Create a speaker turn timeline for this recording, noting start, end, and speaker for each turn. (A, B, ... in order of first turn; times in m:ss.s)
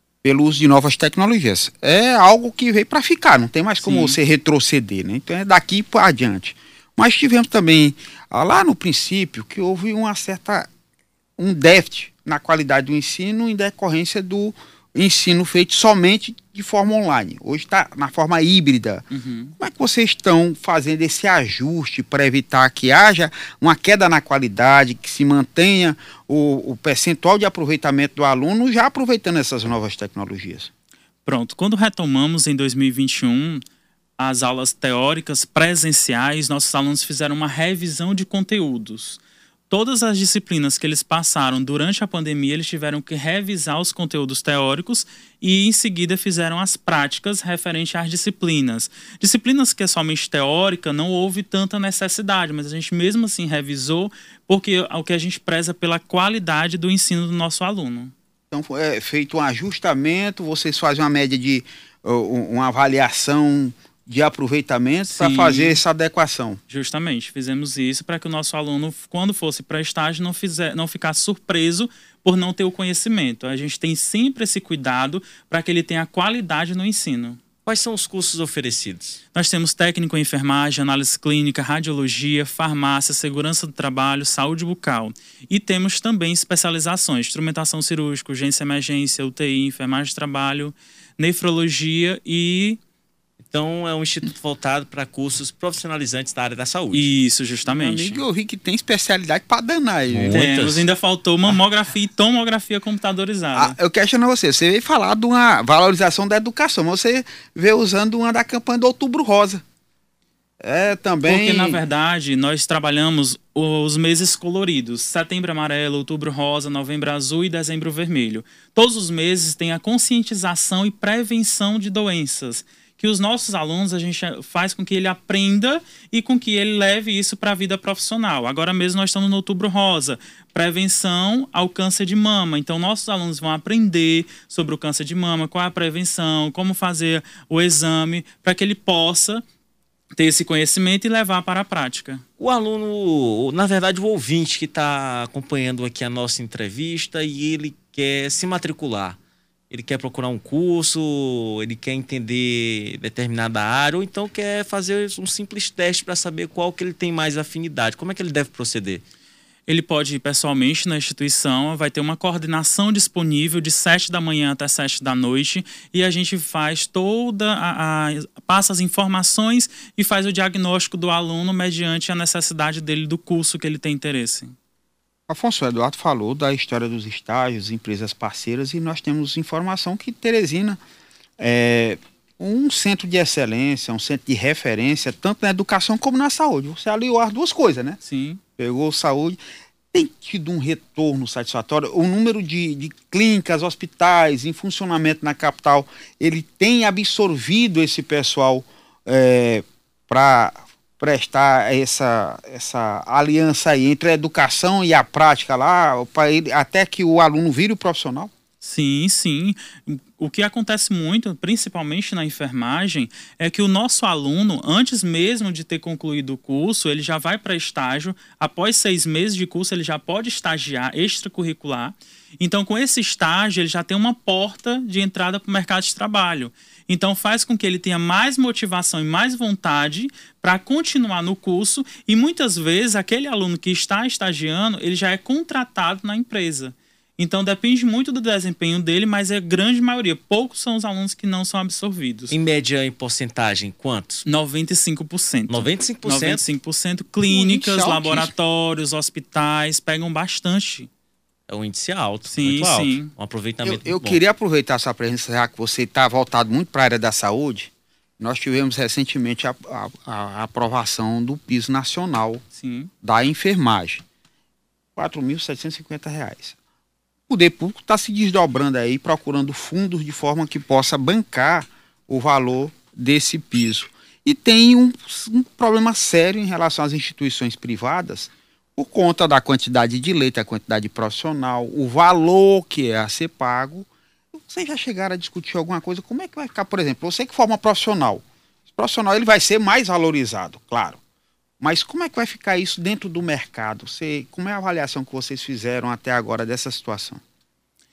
0:00.2-0:10.7 A
0:03.8-0:04.2 B
0:11.4-0:19.1 A
0:19.1-0:19.5 B
0:19.6-0:30.7 A
0:31.2-0:33.6 B
0:34.2-0:58.1 B
0:58.5-1:06.6 A
1:05.1-1:05.8 B
1:06.7-1:17.4 B
1:17.6-1:19.2 C
1:19.3-1:32.8 B
1:33.5-1:37.1 C
1:36.9-1:38.2 B
1:37.6-1:40.4 A
1:40.1-1:40.8 C
1:40.3-1:43.8 B
1:43.5-1:49.6 A
1:50.6-1:51.8 A
1:51.2-2:19.4 B
2:20.2-2:22.2 B
2:22.4-2:29.2 C
2:29.7-2:39.0 C
2:39.7-2:54.5 B
2:55.3-3:00.8 A
3:01.4-3:08.0 A
3:08.0-3:08.4 B
3:08.6-3:09.4 A
3:09.9-3:28.3 A
3:28.6-4:02.4 B
4:02.3-4:04.2 C
4:04.2-4:10.9 B
4:05.5-4:06.4 C
4:07.2-4:08.3 A
4:11.5-4:14.2 C
4:12.2-4:13.1 B
4:13.6-4:22.4 A
4:22.5-4:22.9 B
4:23.0-4:24.0 A
4:25.0-4:26.6 A
4:27.3-4:51.0 A
4:51.6-4:57.2 A